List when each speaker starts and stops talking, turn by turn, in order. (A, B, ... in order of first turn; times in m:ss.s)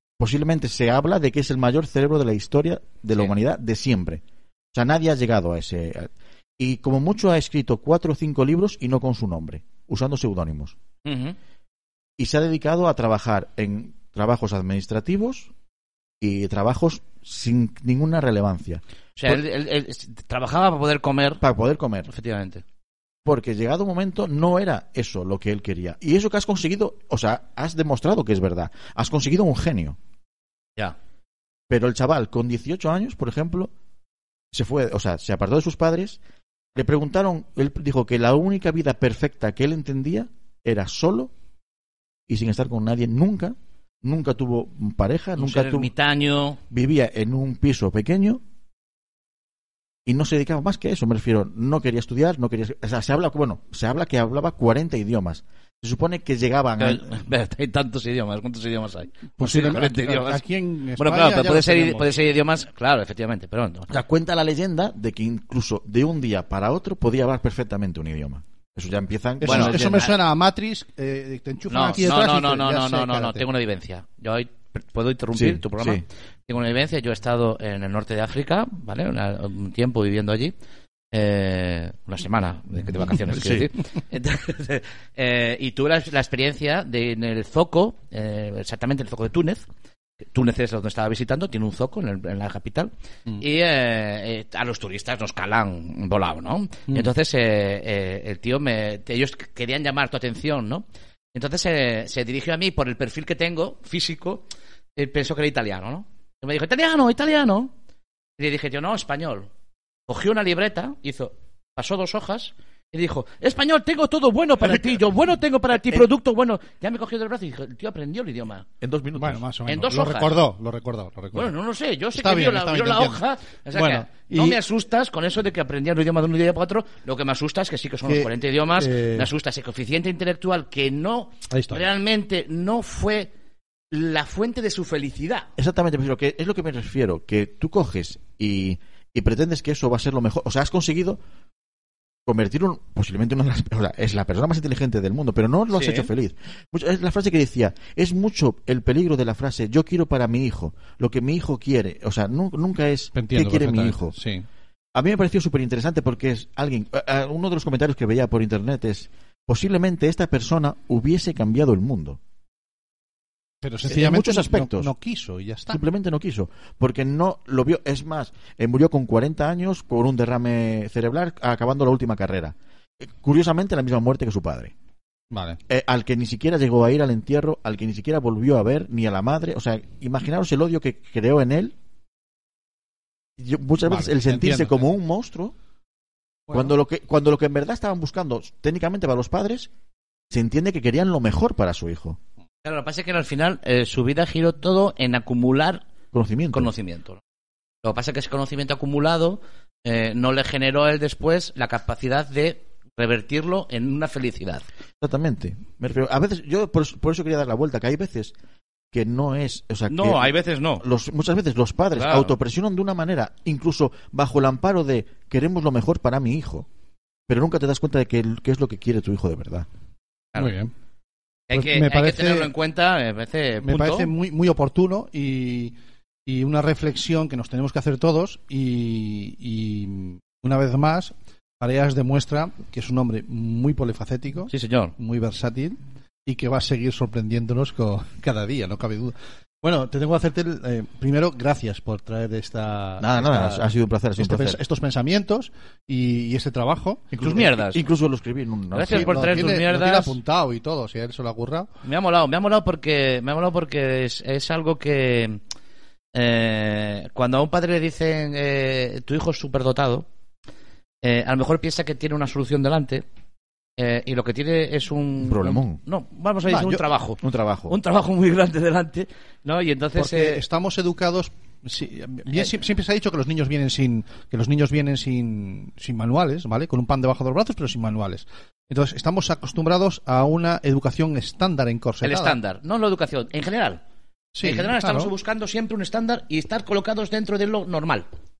0:00.2-0:04.2 A
0:04.7-0:10.7 A
0:11.0-0:11.3 B
0:12.2-0:15.5 A
0:16.2-0:19.4 A
0:19.2-0:21.4 B
0:21.4-0:22.1 A
0:22.1-0:22.6 B
0:23.2-0:30.0 A
0:31.7-0:33.7 A
0:34.5-0:36.2 A
0:36.8-0:41.3 A
0:42.3-0:45.9 A
0:45.4-0:46.6 B
0:46.7-0:48.4 A
0:50.0-0:57.1 A
0:56.8-1:00.4 B
0:59.4-1:02.2 C
1:01.0-1:03.9 B
1:03.9-1:10.1 A
1:09.4-1:13.4 C
1:09.4-1:10.1 B
1:11.7-1:20.5 B
1:15.3-1:16.0 A
1:21.1-1:29.6 B
1:23.3-1:23.7 A
1:30.3-1:47.7 B
1:48.4-1:49.5 B
1:50.1-1:58.6 B
1:58.8-1:59.4 A
1:59.2-2:01.5 C
1:59.6-2:00.4 B
2:01.3-2:13.3 B
2:02.1-2:04.6 C
2:08.0-2:09.3 C
2:11.5-2:11.9 C
2:13.9-2:15.5 B
2:15.6-2:21.2 A
2:22.3-2:34.2 A
2:25.7-2:26.1 B
2:33.1-2:34.4 C
2:34.9-2:42.2 A
2:43.6-2:45.8 C
2:43.8-2:44.9 A
2:45.7-2:52.5 A
2:53.2-2:54.7 A
2:55.3-2:55.6 C
2:55.7-3:01.7 A
3:03.4-3:05.5 A
3:03.8-3:04.8 C
3:06.5-3:09.7 A
3:10.3-3:12.2 A
3:12.6-3:15.8 B
3:16.1-3:16.7 A
3:16.5-3:17.2 B
3:17.8-3:24.6 B
3:25.0-3:28.3 A
3:28.9-3:36.6 A
3:29.9-3:30.8 B
3:31.9-3:32.4 B
3:37.3-3:39.7 A
3:40.4-3:40.7 C
3:41.5-3:44.1 B
3:41.5-3:42.5 C
3:43.6-3:45.7 C
3:46.2-4:03.6 C
3:54.5-3:54.9 B
4:03.0-4:04.6 A
4:04.2-4:07.4 C
4:07.1-4:09.3 A
4:07.2-4:07.8 B
4:08.7-4:10.2 B
4:08.8-4:11.7 C
4:11.8-4:15.4 B
4:16.1-4:20.0 B
4:21.0-4:23.0 B
4:23.8-4:30.4 B
4:25.2-4:25.8 A
4:26.4-4:26.9 C
4:27.2-4:27.8 A
4:29.9-4:42.4 C
4:42.0-4:43.8 B
4:44.3-4:45.1 C
4:44.4-4:48.1 B